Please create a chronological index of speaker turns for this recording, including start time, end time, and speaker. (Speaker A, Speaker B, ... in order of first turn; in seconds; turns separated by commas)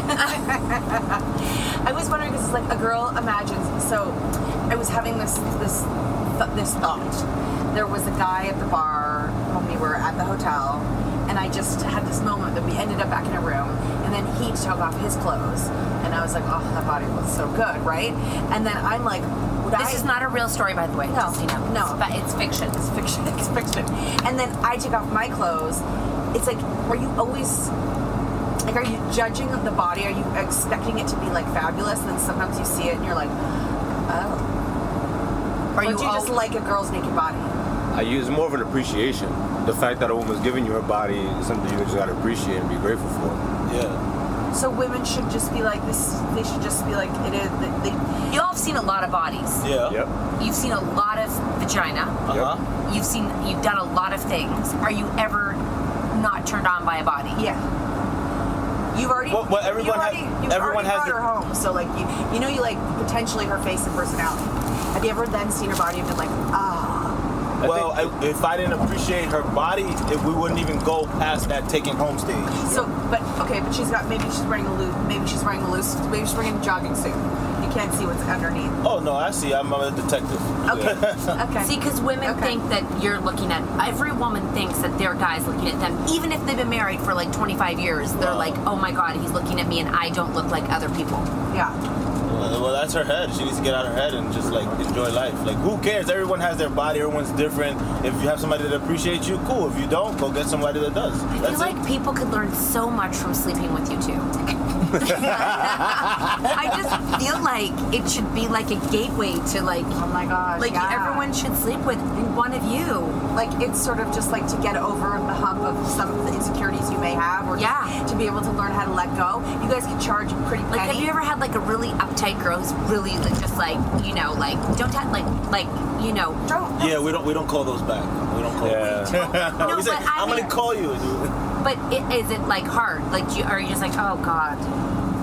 Speaker A: 0.1-1.0, Speaker A: 1.8-20.1, Speaker B: 19.7-22.9, Speaker A: 21.1-22.2, Speaker A: 22.8-27.7, Speaker A: 28.6-33.4, Speaker A: 34.1-34.5, Speaker B: 35.7-36.4, Speaker A: 35.8-37.5, Speaker C: 37.9-43.4, Speaker D: 43.6-44.0, Speaker A: 44.5-48.0, Speaker B: 48.3-49.7, Speaker D: 49.6-50.0, Speaker B: 50.4-52.2, Speaker D: 52.3-52.6, Speaker B: 52.9-57.5, Speaker A: 57.4-57.6, Speaker A: 58.9-67.2, Speaker D: 59.2-61.3, Speaker D: 67.6-72.9, Speaker C: 67.6-68.1, Speaker A: 72.6-78.8, Speaker D: 78.8-81.4, Speaker A: 80.7-82.6, Speaker B: 81.6-91.3, Speaker D: 88.2-88.6, Speaker A: 91.5-91.8, Speaker D: 92.3-101.8, Speaker B: 101.3-104.3, Speaker B: 104.9-110.0, Speaker A: 110.0-111.3, Speaker B: 110.6-113.2, Speaker A: 113.2-121.1, Speaker B: 117.5-118.0, Speaker B: 120.7-126.4, Speaker A: 126.5-127.0, Speaker D: 126.8-131.3, Speaker C: 128.6-129.9, Speaker B: 128.8-130.6, Speaker B: 131.6-134.7